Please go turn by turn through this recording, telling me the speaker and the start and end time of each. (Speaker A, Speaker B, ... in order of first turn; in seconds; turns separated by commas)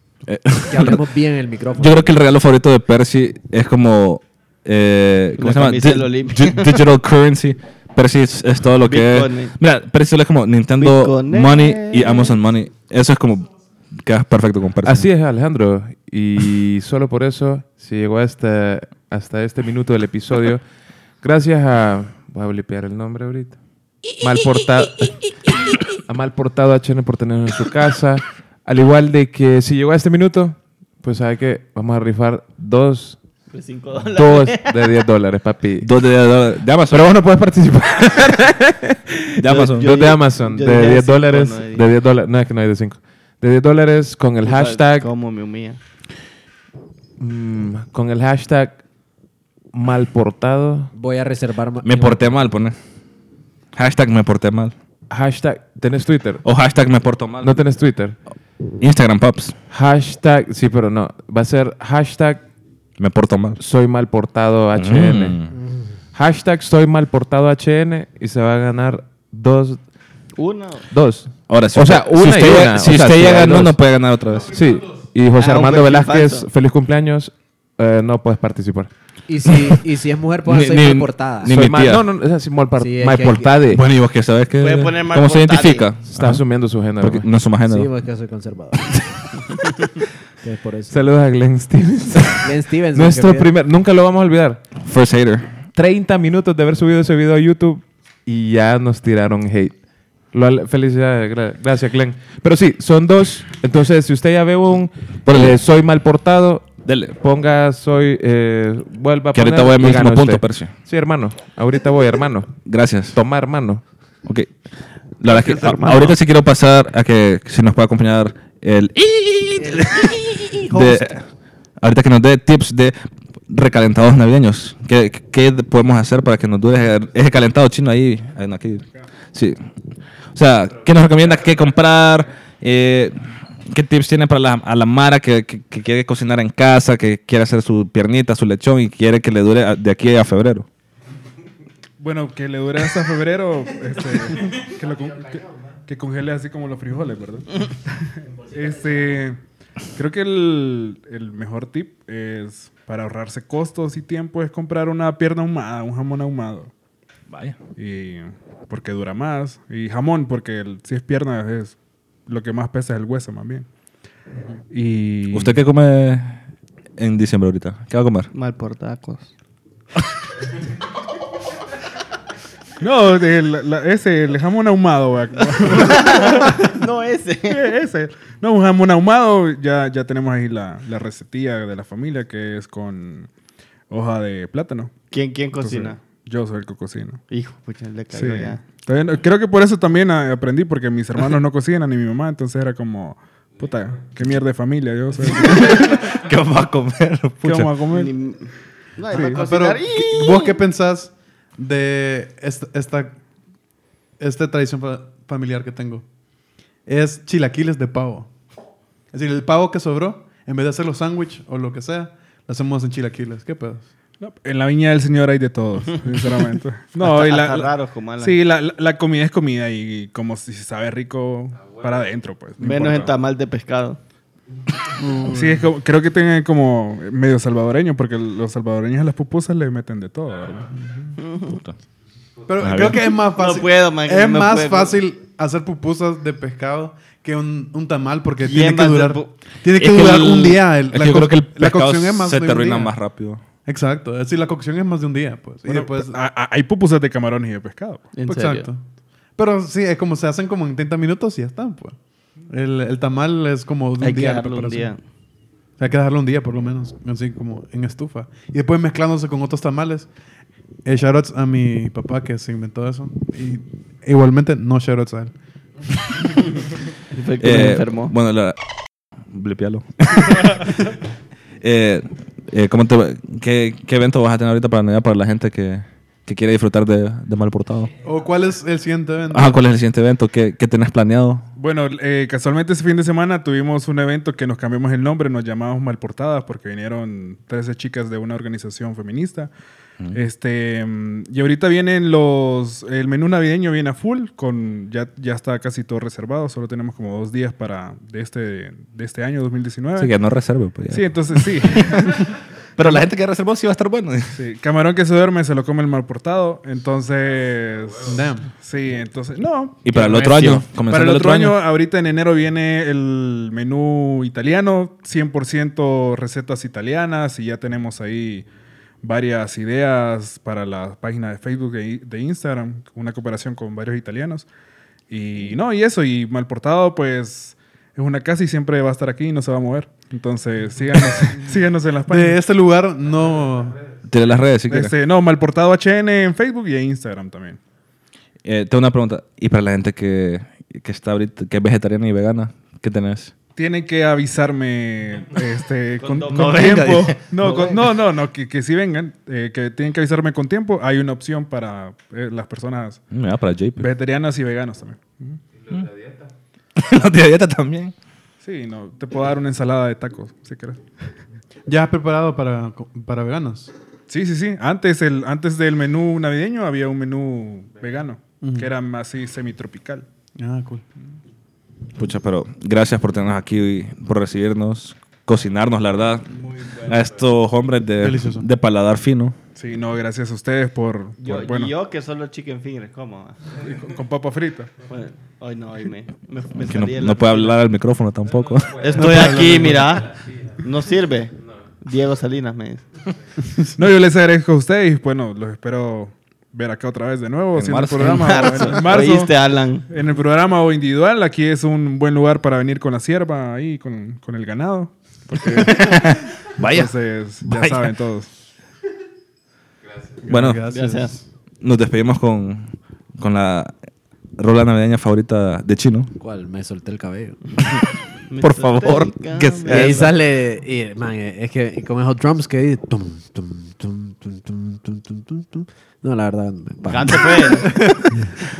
Speaker A: 0.2-1.0, Speaker B: 0.7-2.1, Speaker A: 1.8-15.1, Speaker C: 5.4-6.8, Speaker C: 8.8-9.5, Speaker C: 10.8-12.3, Speaker D: 14.8-20.6, Speaker D: 21.2-23.6, Speaker D: 24.2-25.4, Speaker D: 26.0-33.2, Speaker C: 33.5-35.0, Speaker D: 34.1-35.9, Speaker A: 35.8-37.1, Speaker D: 36.9-39.0, Speaker A: 39.4-39.9, Speaker C: 39.4-41.9, Speaker D: 39.8-45.1, Speaker C: 44.4-45.8, Speaker D: 47.2-48.8, Speaker D: 49.7-50.9, Speaker B: 50.9-52.5, Speaker A: 51.8-52.8, Speaker A: 53.7-54.7, Speaker D: 55.1-56.4, Speaker A: 56.4-57.6, Speaker D: 57.4-58.2, Speaker A: 58.8-59.5, Speaker D: 59.7-62.5, Speaker A: 63.0-63.6, Speaker D: 63.6-65.4, Speaker A: 64.7-65.5, Speaker B: 65.5-65.9, Speaker D: 66.1-69.9, Speaker C: 70.3-70.8, Speaker D: 70.9-73.8, Speaker A: 71.5-74.6, Speaker D: 74.5-78.9, Speaker C: 75.4-76.5, Speaker B: 79.3-81.5, Speaker A: 80.5-82.0, Speaker D: 81.5-83.8, Speaker B: 82.8-83.5, Speaker A: 83.7-87.9, Speaker C: 84.6-85.9, Speaker D: 86.0-87.3, Speaker B: 87.6-88.9, Speaker B: 90.4-91.0, Speaker D: 90.9-94.7, Speaker B: 92.4-93.5, Speaker A: 94.8-95.6, Speaker D: 95.7-112.5, Speaker A: 105.2-105.6, Speaker A: 106.8-107.2, Speaker A: 109.3-110.7, Speaker A: 112.6-113.2, Speaker D: 113.1-113.8, Speaker A: 114.2-114.5, Speaker A: 115.2-121.2, Speaker B: 119.6-121.0, Speaker A: 121.8-123.0, Speaker A: 123.5-129.6, Speaker A: 130.3-140.7, Speaker E: 142.0-149.4, Speaker E: 149.9-156.7, Speaker A: 157.3-157.6, Speaker E: 157.8-163.7, Speaker E: 164.7-165.6, Speaker A: 165.3-166.4, Speaker A: 167.0-168.3, Speaker C: 168.3-169.3, Speaker E: 172.8-176.7, Speaker C: 175.7-177.7, Speaker E: 177.5-183.3, Speaker E: 183.9-184.9, Speaker C: 185.1-186.0, Speaker E: 185.6-187.2, Speaker C: 187.3-188.6, Speaker E: 188.1-196.0, Speaker A: 195.4-197.7, Speaker E: 197.4-198.1, Speaker C: 197.9-200.6, Speaker E: 199.1-199.4, Speaker F: 199.1-203.2, Speaker F: 204.2-206.0, Speaker F: 206.8-208.3, Speaker F: 209.1-213.9, Speaker E: 214.2-223.1, Speaker C: 217.0-218.4, Speaker C: 222.6-224.0, Speaker F: 225.0-225.6, Speaker E: 225.3-231.1, Speaker C: 231.2-231.6, Speaker A: 231.5-231.8, Speaker F: 232.5-242.9, Speaker A: 232.6-233.0, Speaker C: 233.2-235.0, Speaker C: 238.4-239.3, Speaker A: 239.7-243.4, Speaker F: 243.6-246.1, Speaker E: 245.7-248.1, Speaker C: 248.1-248.7, Speaker F: 248.2-248.8, Speaker F: 249.4-252.0, Speaker F: 252.5-254.9, Speaker C: 254.0-255.0, Speaker F: 255.8-260.1, Speaker F: 260.8-265.3, Speaker C: 267.1-268.1, Speaker A: 267.4-268.6, Speaker A: 269.3-270.7, Speaker A: 271.6-277.9, Speaker F: 278.0-279.6, Speaker A: 279.3-281.4, Speaker E: 281.6-289.5, Speaker E: 290.1-300.1, Speaker A: 300.0-302.2, Speaker E: 300.9-303.0, Speaker A: 302.8-304.4, Speaker E: 304.3-318.4, Speaker F: 308.1-308.5, Speaker A: 309.8-311.6, Speaker C: 309.9-310.6, Speaker E: 319.0-324.5, Speaker E: 325.1-332.4, Speaker F: 332.1-333.8, Speaker A: 334.1-334.9, Speaker E: 334.7-337.6, Speaker A: 338.4-343.3, Speaker E: 343.5-353.0, Speaker C: 346.0-347.9, Speaker A: 346.3-347.1, Speaker A: 353.1-353.9, Speaker E: 353.8-355.4, Speaker D: 355.6-356.3, Speaker A: 356.8-357.9, Speaker E: 358.4-360.8, Speaker F: 361.7-363.7, Speaker E: 364.1-370.1, Speaker F: 368.4-368.7, Speaker F: 370.4-370.9, Speaker A: 372.0-379.3, Speaker F: 378.0-378.5, Speaker E: 379.5-381.7, Speaker C: 381.2-383.5, Speaker E: 383.5-384.7, Speaker C: 384.9-387.6, Speaker A: 386.6-389.3, Speaker C: 388.8-392.8, Speaker F: 388.9-390.0, Speaker F: 393.4-393.7, Speaker E: 393.8-399.3, Speaker A: 397.5-398.8, Speaker C: 398.2-399.9, Speaker E: 399.9-408.3, Speaker A: 405.5-406.9, Speaker A: 407.4-407.9, Speaker F: 410.2-411.2, Speaker A: 410.3-410.6, Speaker C: 410.7-411.1, Speaker A: 411.6-413.7, Speaker A: 414.4-416.1, Speaker B: 416.2-417.4, Speaker C: 418.3-420.1, Speaker A: 418.4-420.1, Speaker B: 419.6-427.6, Speaker C: 426.9-427.8, Speaker F: 427.6-428.0